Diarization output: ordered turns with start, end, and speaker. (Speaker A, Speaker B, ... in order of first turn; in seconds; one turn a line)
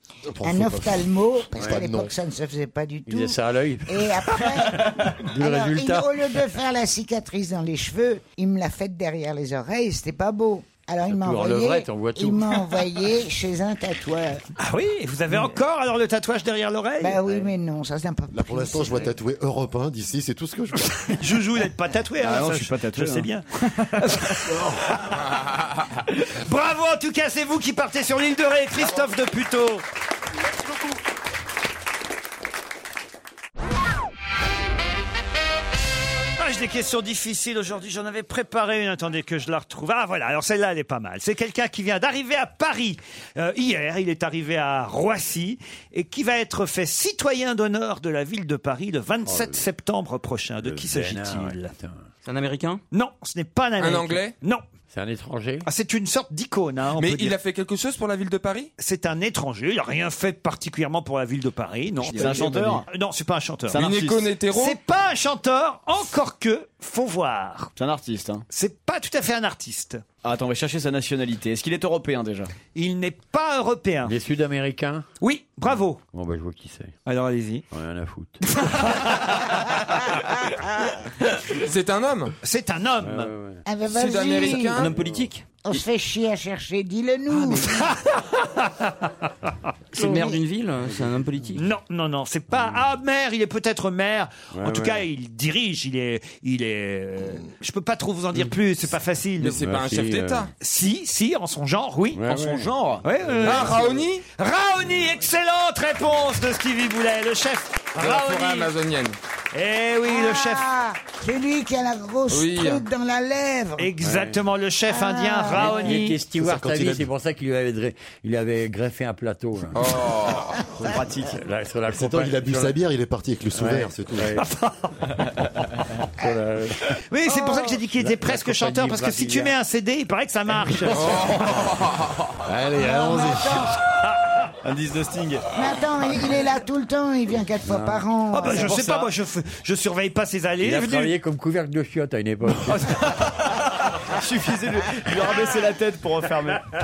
Speaker A: 0.3-2.1
Speaker B: 0.4-14.4
Speaker C: 1.6-1.9
Speaker C: 3.1-6.1
Speaker D: 4.8-5.1
Speaker C: 11.1-12.6
Speaker E: 14.6-17.2
Speaker B: 17.0-19.1
Speaker A: 18.3-21.2
Speaker E: 21.2-24.5
Speaker D: 22.2-24.4
Speaker E: 26.3-29.8
Speaker E: 36.4-51.7
Speaker C: 49.3-49.6
Speaker C: 50.6-52.1
Speaker F: 52.2-52.8
Speaker E: 52.9-54.6
Speaker G: 53.8-54.4
Speaker C: 54.9-55.7
Speaker E: 55.6-57.4
Speaker G: 57.0-58.7
Speaker E: 58.8-63.8
Speaker D: 62.0-62.9
Speaker D: 63.7-64.3
Speaker G: 63.7-64.8
Speaker E: 64.5-67.7
Speaker D: 67.8-68.5
Speaker E: 68.5-70.0
Speaker D: 70.2-72.5
Speaker E: 72.8-74.1
Speaker C: 74.0-75.1
Speaker E: 75.2-76.0
Speaker C: 76.1-76.9
Speaker E: 77.1-77.7
Speaker C: 77.7-78.8
Speaker E: 78.6-79.3
Speaker G: 81.5-82.3
Speaker E: 82.4-83.3
Speaker C: 83.0-83.7
Speaker B: 83.7-84.9
Speaker G: 83.9-84.9
Speaker F: 84.8-85.5
Speaker C: 84.8-85.3
Speaker B: 85.6-87.9
Speaker E: 87.6-89.1
Speaker F: 89.9-91.7
Speaker E: 91.6-99.6
Speaker C: 94.5-95.0
Speaker G: 99.4-100.5
Speaker C: 99.5-100.5
Speaker E: 100.6-102.2
Speaker C: 102.2-102.7
Speaker D: 102.2-103.0
Speaker E: 103.0-108.7
Speaker C: 103.2-103.8
Speaker G: 103.4-104.2
Speaker G: 108.0-109.2
Speaker E: 109.5-110.7
Speaker B: 110.1-113.9
Speaker G: 112.3-112.8
Speaker E: 113.8-116.2
Speaker C: 114.0-114.4
Speaker B: 114.9-116.0
Speaker C: 115.5-120.0
Speaker A: 116.4-117.0
Speaker G: 119.7-120.7
Speaker D: 120.8-121.4
Speaker C: 120.9-122.8
Speaker A: 121.9-124.3
Speaker C: 123.5-124.5
Speaker E: 124.4-124.9
Speaker C: 125.4-127.0
Speaker E: 127.1-131.6
Speaker C: 127.6-129.6
Speaker C: 130.9-131.4
Speaker G: 130.9-132.4
Speaker A: 132.5-133.7
Speaker B: 132.8-133.8
Speaker D: 134.6-135.5
Speaker B: 135.5-138.8
Speaker C: 137.7-138.8
Speaker E: 138.3-141.1
Speaker D: 138.7-139.1
Speaker C: 140.6-143.3
Speaker D: 143.2-146.6